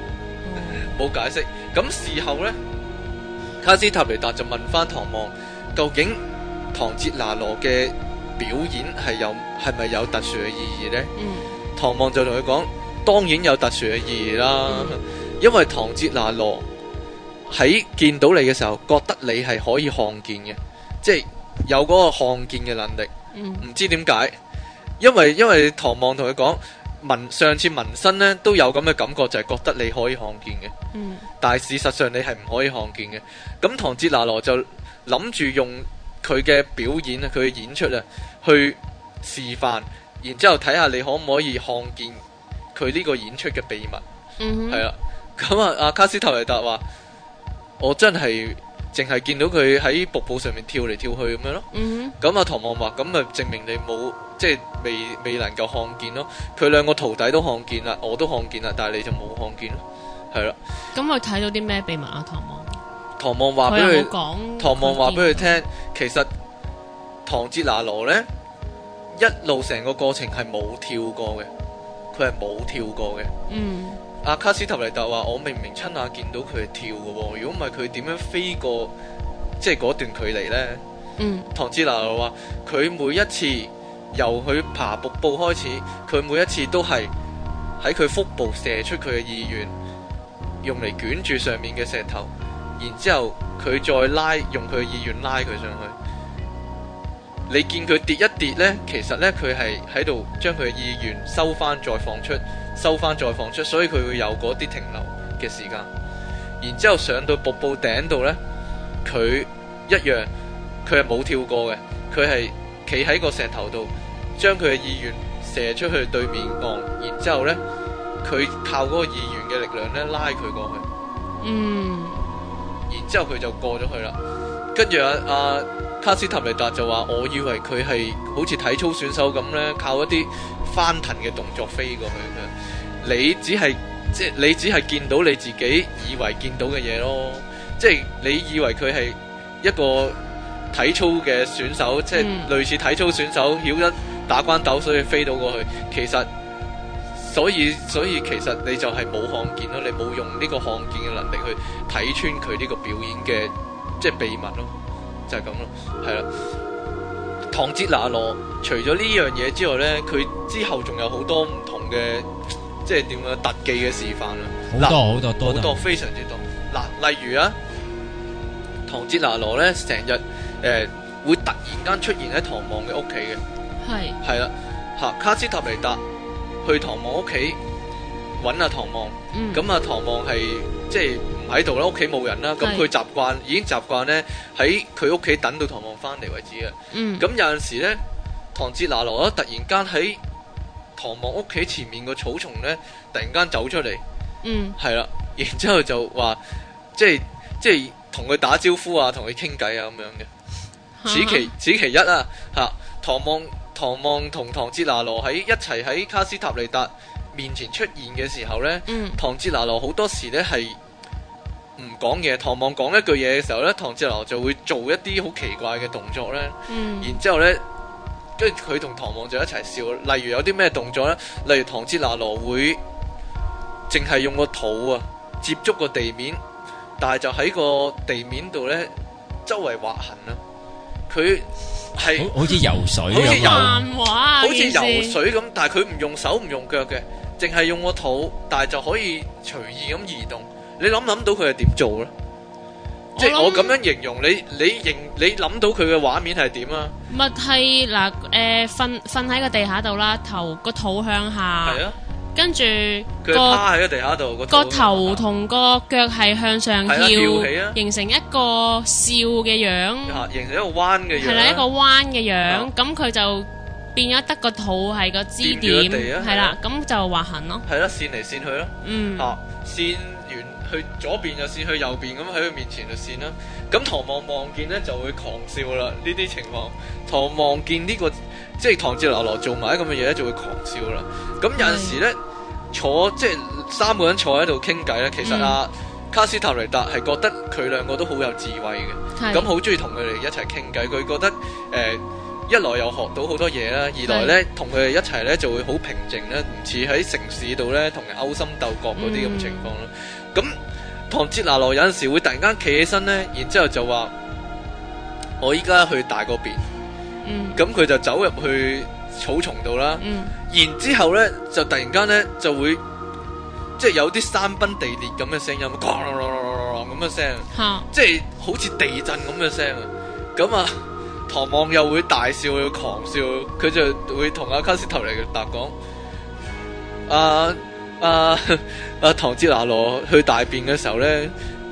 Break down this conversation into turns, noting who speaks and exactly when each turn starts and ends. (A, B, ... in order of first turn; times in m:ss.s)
0:00.4-0:00.9 A
0:00.7-0:02.6 B
0:03.6-0:06.2 B
0:06.7-0:11.1 B
0:11.2-0:11.5 A
0:11.8-0:16.6 B
0:14.7-0:15.0 A
0:17.5-0:23.1 B
0:23.3-0:23.6 A
0:23.6-0:24.3 B
0:25.0-0:30.7 B
0:30.9-0:31.2 A
0:31.4-0:42.2 B
0:42.7-0:44.0 B
0:44.4-0:44.8 A
0:44.7-0:46.8 B
0:47.8-0:51.7 B
0:51.7-0:52.1 A
0:52.2-0:59.8 B
1:00.3-1:00.6 B
1:00.9-1:02.7 A
1:03.2-1:06.3 B
1:03.7-1:05.6 A
1:07.2-1:08.3 B
1:09.1-1:11.5 B
1:12.1-1:13.3 B
1:13.5-1:14.0 A
1:14.2-1:18.9 B
1:19.6-1:20.8 B
1:21.2-1:21.5 A
1:21.5-1:27.1 B
1:27.8-1:29.7 B
1:30.6-1:36.0 B
1:37.5-1:45.9 B
1:46.6-1:48.4 B
1:49.0-1:50.3 B
1:50.8-1:57.6 B
1:58.2-2:00.8 B
2:01.4-2:02.2 A
2:02.9-2:04.2 B
2:04.7-2:20.2 B
2:20.7-2:26.3 B
2:22.1-2:22.5 A
2:27.2-2:34.7 B
2:35.3-2:36.3 B
2:37.5-2:42.3 B
2:42.8-2:47.6 B
2:44.7-2:45.8 C
2:48.9-2:53.4 B
2:53.8-2:54.2 A
2:54.2-2:56.0 B
2:56.6-2:57.6 B
2:58.4-3:08.0 B
2:59.3-2:59.6 A
3:02.6-3:02.9 A
3:06.9-3:07.3 A
3:08.5-3:10.2 B
3:11.0-3:14.0 B
3:14.4-3:14.8 A
3:14.8-3:16.4 B
3:17.0-3:20.3 B
3:21.0-3:21.5 A
3:21.1-3:30.8 B
3:28.9-3:29.2 A
3:31.8-3:37.6 B
3:36.7-3:37.2 A
3:38.4-3:42.8 B
3:43.9-3:46.4 B
3:47.0-3:48.9 B
3:49.4-3:50.4 B
3:51.1-3:52.3 B
3:52.2-3:53.8 C
3:53.1-3:53.8 B
3:53.1-3:55.2 A
3:54.4-4:02.1 B
4:03.2-4:03.8 A
4:03.2-4:06.9 B
4:07.1-4:11.8 A
4:11.6-4:12.0 B
4:12.3-4:13.6 A
4:13.2-4:15.2 B
4:14.5-4:20.2 A
4:16.8-4:17.8 B
4:20.1-4:21.6 B
4:21.2-4:27.6 A
4:25.4-4:26.6 B
4:27.7-4:42.2 B
4:28.8-4:29.3 A
4:41.6-4:42.0 A
4:42.7-5:00.6 B
4:45.2-4:45.6 A
4:49.2-4:49.5 A
4:54.0-4:54.4 A
4:59.0-4:59.7 A
5:01.1-5:04.1 B
5:05.4-5:06.6 B
5:07.2-5:07.6 A
5:07.6-5:12.8 B
5:10.0-5:10.3 A
5:13.8-5:25.7 B
5:17.5-5:17.9 A
5:27.1-5:31.3 B